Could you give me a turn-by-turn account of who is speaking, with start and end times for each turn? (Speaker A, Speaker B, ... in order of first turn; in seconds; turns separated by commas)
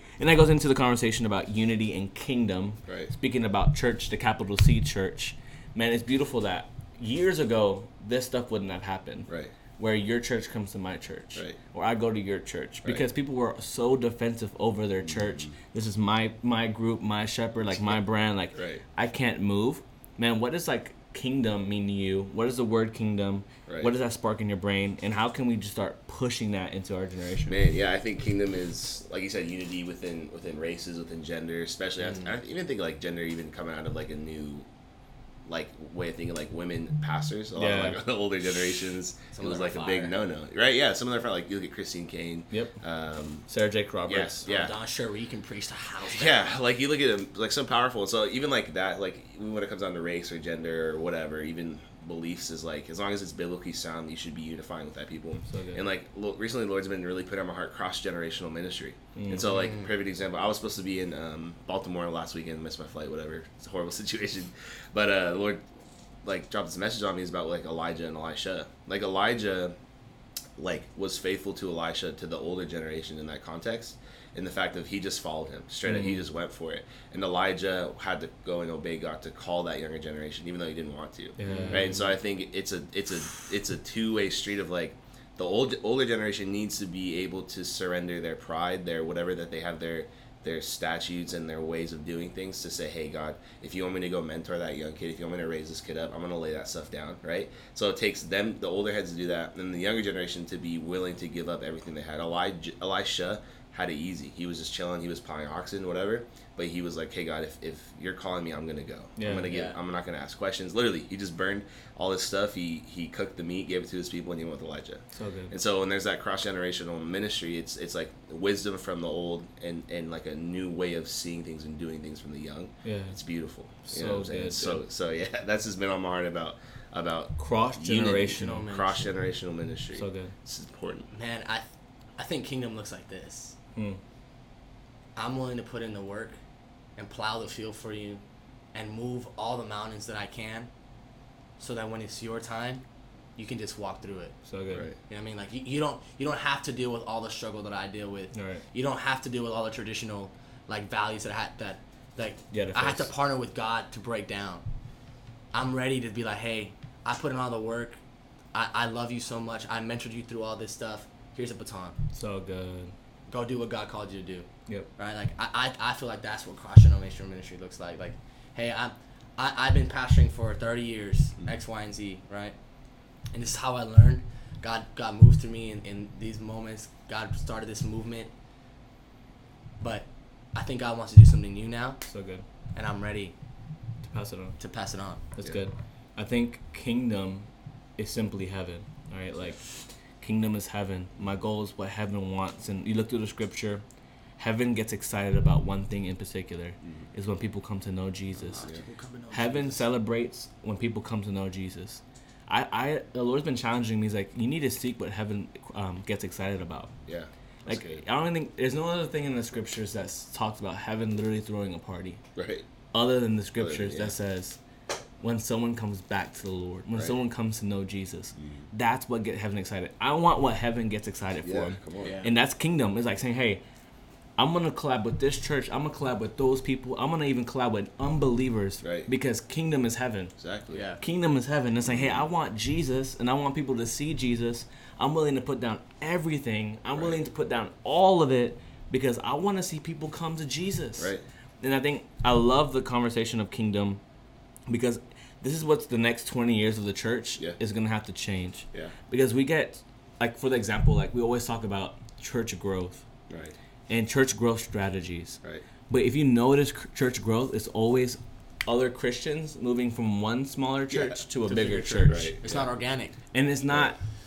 Speaker A: 0.2-27.6, Speaker B: 2.9-3.1, Speaker B: 9.3-9.5, Speaker B: 15.1-15.6, Speaker B: 17.7-18.0, Speaker B: 18.5-18.8, Speaker B: 23.7-23.9, Speaker B: 27.5-34.7, Speaker C: 32.0-32.4, Speaker B: 35.5-43.5, Speaker A: 37.5-38.0, Speaker C: 39.3-40.2, Speaker A: 42.5-42.8, Speaker A: 43.5-44.4, Speaker B: 44.1-44.8, Speaker C: 44.5-46.5, Speaker B: 46.1-65.6, Speaker A: 55.5-55.8, Speaker A: 59.1-59.5, Speaker C: 59.5-59.9, Speaker B: 66.2-69.8, Speaker B: 70.6-131.1, Speaker A: 75.8-76.2, Speaker A: 81.4-82.0, Speaker C: 81.4-82.0, Speaker A: 109.2-109.5, Speaker C: 109.5-109.8, Speaker A: 115.1-115.5, Speaker A: 122.8-123.2, Speaker A: 123.8-124.8, Speaker A: 127.4-128.7, Speaker C: 128.2-129.2, Speaker A: 129.9-130.3, Speaker C: 131.1-133.6, Speaker A: 133.8-134.0, Speaker C: 135.2-136.4, Speaker C: 137.0-138.2, Speaker C: 138.7-140.7, Speaker C: 141.6-142.8, Speaker C: 143.4-144.4, Speaker A: 144.4-144.9, Speaker B: 144.7-145.0, Speaker C: 145.1-154.6, Speaker A: 148.3-148.6, Speaker A: 152.5-153.1, Speaker C: 155.5-158.0, Speaker C: 158.5-162.0, Speaker A: 162.1-162.9, Speaker C: 163.3-172.6, Speaker C: 173.3-178.3, Speaker C: 179.8-182.1, Speaker A: 182.1-182.4, Speaker C: 182.8-183.3, Speaker A: 184.0-184.6, Speaker C: 184.6-185.2, Speaker A: 185.3-189.6, Speaker A: 190.2-193.8, Speaker A: 194.4-198.7, Speaker B: 196.8-197.1, Speaker C: 198.5-199.9, Speaker A: 199.3-206.9, Speaker B: 207.1-208.1, Speaker A: 207.7-212.2, Speaker B: 212.4-212.7, Speaker A: 212.9-214.6, Speaker B: 213.6-214.1, Speaker A: 215.2-223.6, Speaker B: 218.4-218.7, Speaker B: 221.4-222.2, Speaker C: 222.0-222.3, Speaker A: 224.4-230.3, Speaker B: 228.8-229.1, Speaker B: 230.4-230.8, Speaker C: 230.7-231.0, Speaker A: 231.0-244.0, Speaker B: 231.8-232.2, Speaker B: 236.9-237.2, Speaker B: 241.0-241.2, Speaker A: 244.7-253.1, Speaker B: 253.3-253.6, Speaker A: 253.9-255.4, Speaker A: 255.9-262.4, Speaker B: 260.9-261.2, Speaker C: 261.4-263.1, Speaker B: 262.1-262.7, Speaker A: 263.3-264.0, Speaker B: 263.7-263.9